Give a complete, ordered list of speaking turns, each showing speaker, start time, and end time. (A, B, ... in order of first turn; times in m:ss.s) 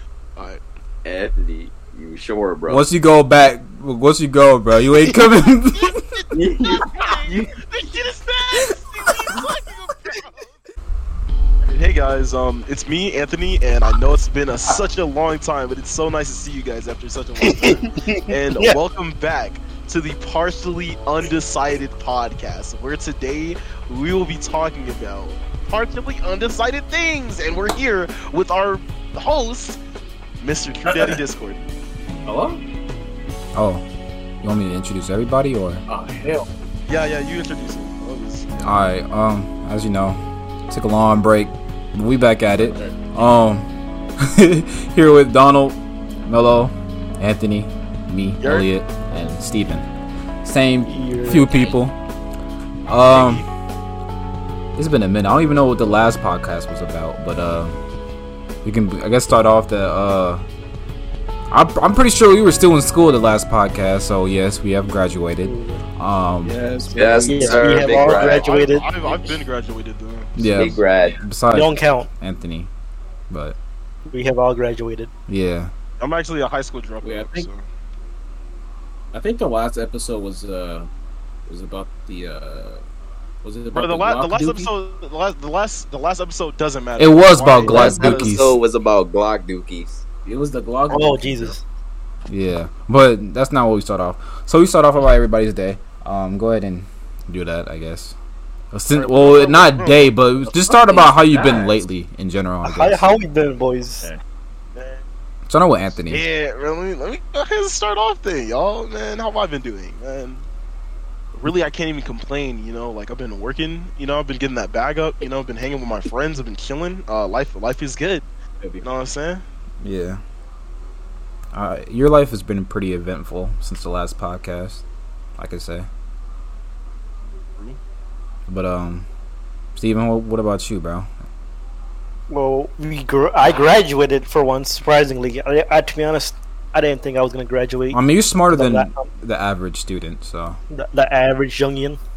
0:00.4-0:00.6 A
0:01.0-0:02.8 B
0:02.7-0:06.0 C
0:05.8-0:10.6 A
0:06.3-0:07.5 B
0:11.7-0:29.8 A
0:17.4-0:18.8 D
0:30.4-0:31.6 A
0:30.9-0:31.2 E
0:32.2-0:32.6 E
0:33.5-0:33.8 C
0:34.4-0:35.8 C
0:35.9-0:36.5 E
0:36.9-0:38.5 A
0:38.6-0:43.7 C
0:42.6-0:42.9 E
0:44.2-0:49.8 C
0:48.4-0:48.7 A
0:50.4-0:52.0 C
0:50.8-0:51.5 D
0:52.9-0:53.4 C
0:53.1-0:53.4 A
0:54.8-0:57.8 C
0:58.6-1:00.4 C
1:01.5-1:06.6 C
1:05.4-1:05.8 D
1:06.4-1:08.1 E
1:06.9-1:08.4 B
1:07.3-1:08.9 D
1:08.0-1:10.8 A
1:10.4-1:12.7 C
1:10.5-1:11.2 B
1:11.5-1:12.1 D
1:13.3-1:13.6 C
1:14.1-1:15.1 D
1:15.3-1:15.7 C
1:16.0-1:17.6 A
1:17.0-1:17.5 E
1:19.1-1:20.9 E
1:21.5-1:22.8 E
1:23.4-1:24.7 E
1:23.7-1:28.3 A
1:27.0-1:28.6 C
1:27.6-1:30.0 B
1:30.2-1:31.6 E
1:30.9-1:31.6 D
1:32.3-1:38.1 C
1:38.7-1:43.2 C
1:38.9-1:40.1 A
1:40.5-1:41.8 E
1:42.6-1:44.1 D
1:44.7-1:45.0 A
1:45.5-1:46.2 C
1:46.0-1:50.4 A
1:51.4-1:58.2 A
1:58.8-1:59.4 A
1:59.8-2:00.2 C
2:01.5-2:04.8 C
2:05.4-2:05.9 C
2:08.5-2:09.1 C
2:09.7-2:11.1 C
2:12.3-2:19.1 D
2:17.9-2:20.6 C
2:20.7-2:22.0 D